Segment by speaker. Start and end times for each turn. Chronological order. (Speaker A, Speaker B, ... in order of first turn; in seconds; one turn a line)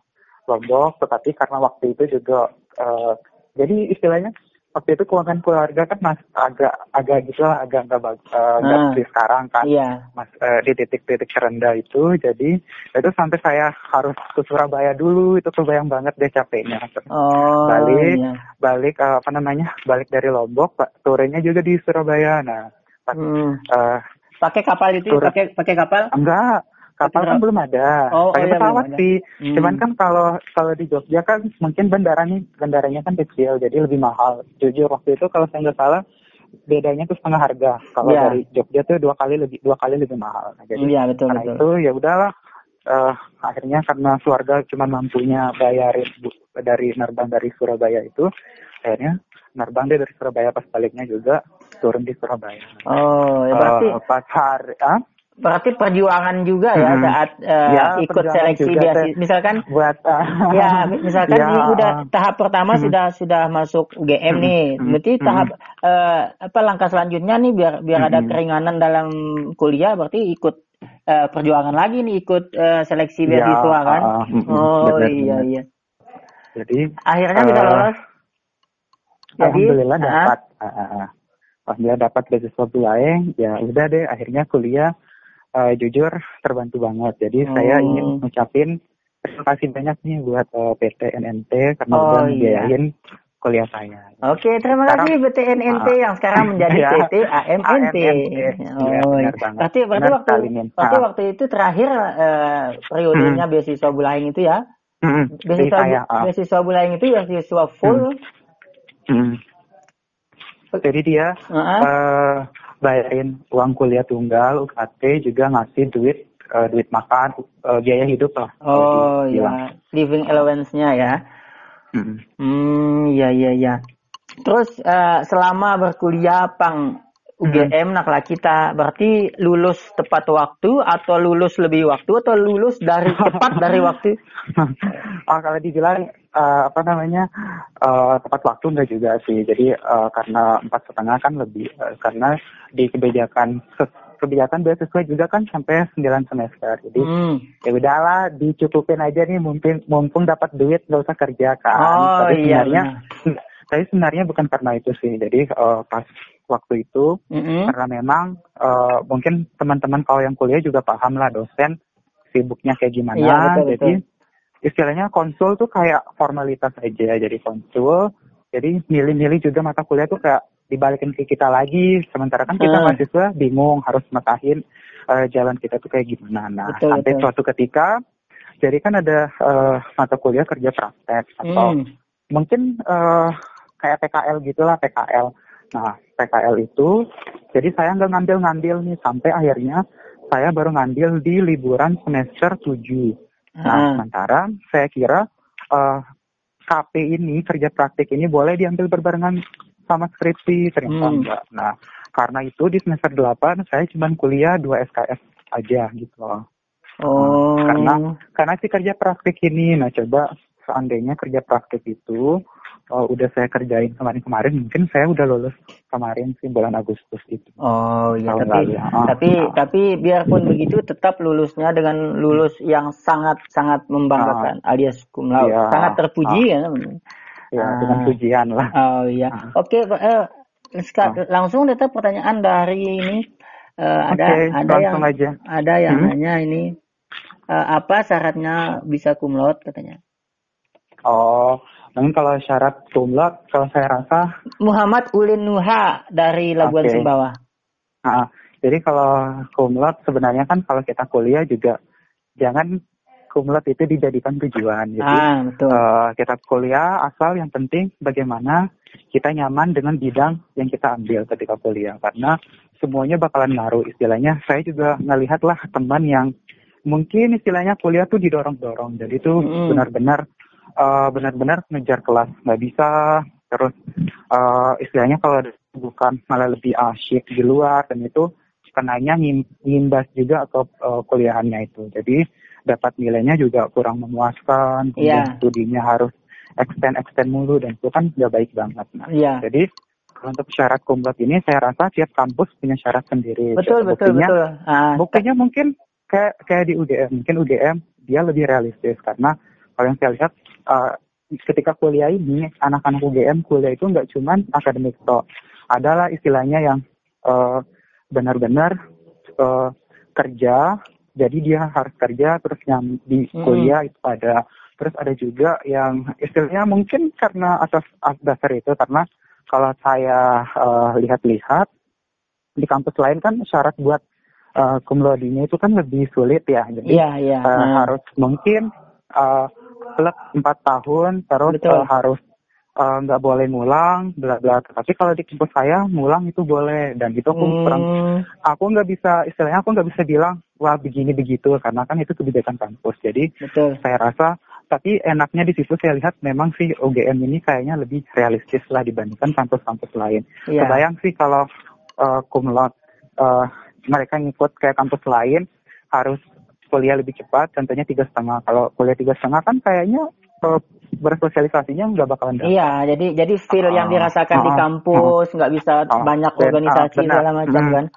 Speaker A: 0.5-17.1
Speaker B: 8.6-9.0
Speaker B: 9.6-10.0
Speaker B: 17.1-18.4
Speaker A: 17.6-24.0
Speaker B: 23.1-23.6
Speaker B: 24.4-26.1
Speaker A: 25.1-25.3
Speaker A: 26.1-36.0
Speaker B: 27.0-27.4
Speaker B: 28.2-29.8
Speaker A: 36.7-42.3
Speaker B: 38.0-38.4
Speaker B: 40.8-41.6
Speaker A: 42.9-48.3
Speaker A: 48.8-52.9
Speaker B: 52.9-54.0
Speaker A: 53.5-55.0
Speaker B: 55.4-59.6
Speaker A: 56.8-62.0
Speaker B: 60.5-70.6
Speaker A: 64.3-65.5
Speaker A: 68.0-68.4
Speaker B: 71.1-75.6
Speaker A: 73.3-75.5
Speaker A: 76.5-76.8
Speaker B: 77.1-78.0
Speaker A: 77.3-77.9
Speaker A: 79.4-81.1
Speaker B: 79.4-80.3
Speaker A: 81.7-84.9
Speaker A: 85.6-88.7
Speaker B: 87.5-88.2
Speaker A: 89.2-92.9
Speaker B: 91.9-92.7
Speaker A: 93.4-95.1
Speaker B: 94.3-104.6
Speaker A: 95.7-97.1
Speaker A: 97.7-101.0
Speaker A: 103.1-103.4
Speaker A: 105.0-106.3
Speaker B: 105.5-108.1
Speaker A: 109.1-109.4
Speaker A: 110.8-119.6
Speaker B: 111.5-111.9
Speaker B: 118.6-121.2
Speaker A: 121.9-122.2
Speaker B: 122.4-123.8
Speaker B: 124.4-126.9
Speaker B: 127.4-134.2
Speaker A: 127.5-127.7
Speaker A: 133.2-133.9
Speaker A: 134.5-137.3
Speaker A: 137.8-147.1
Speaker B: 147.0-147.4
Speaker A: 147.6-157.1
Speaker B: 151.8-152.9
Speaker B: 157.3-157.7
Speaker A: 157.7-161.7
Speaker A: 162.3-164.0
Speaker B: 163.2-164.0
Speaker A: 164.7-168.0
Speaker A: 168.5-174.6
Speaker B: 172.6-173.0
Speaker A: 175.1-177.9
Speaker B: 176.7-177.2
Speaker A: 178.6-181.7
Speaker B: 181.4-181.8
Speaker A: 182.3-186.9
Speaker A: 187.5-189.8
Speaker A: 190.3-193.1
Speaker B: 193.6-194.0
Speaker A: 193.7-195.2
Speaker A: 195.7-196.0
Speaker A: 196.7-199.4
Speaker A: 199.9-206.4
Speaker B: 200.9-201.2
Speaker B: 207.0-208.1
Speaker A: 207.1-212.3
Speaker A: 212.9-217.6
Speaker B: 217.6-227.0
Speaker A: 218.3-219.5
Speaker A: 224.2-224.5
Speaker A: 225.4-226.4
Speaker A: 227.5-228.7
Speaker B: 227.6-228.1
Speaker B: 228.8-233.2
Speaker B: 233.8-236.7
Speaker A: 234.1-235.4
Speaker B: 237.5-240.0
Speaker A: 241.1-244.2
Speaker B: 244.6-247.3
Speaker A: 246.6-247.0
Speaker A: 248.1-251.7
Speaker A: 252.4-252.7
Speaker A: 253.3-258.6
Speaker B: 255.0-255.8
Speaker A: 259.1-266.3
Speaker A: 266.9-270.2
Speaker B: 269.4-269.8
Speaker A: 270.8-273.8
Speaker A: 274.3-289.6
Speaker B: 285.0-285.4
Speaker B: 289.1-289.4
Speaker A: 290.2-294.3
Speaker B: 293.6-295.2
Speaker A: 295.0-305.2
Speaker A: 305.7-307.6
Speaker A: 308.1-308.7
Speaker A: 309.4-321.7
Speaker B: 313.4-313.7
Speaker A: 322.6-324.0
Speaker A: 324.6-328.7
Speaker B: 326.9-327.9
Speaker A: 329.2-332.2
Speaker B: 331.5-331.9
Speaker A: 332.8-337.9
Speaker B: 337.4-338.2
Speaker A: 338.5-343.2
Speaker B: 343.4-343.8
Speaker A: 343.8-351.4
Speaker B: 350.5-350.8
Speaker A: 352.0-356.2
Speaker A: 356.7-362.6
Speaker B: 362.4-367.9
Speaker A: 363.5-365.1
Speaker A: 365.9-367.8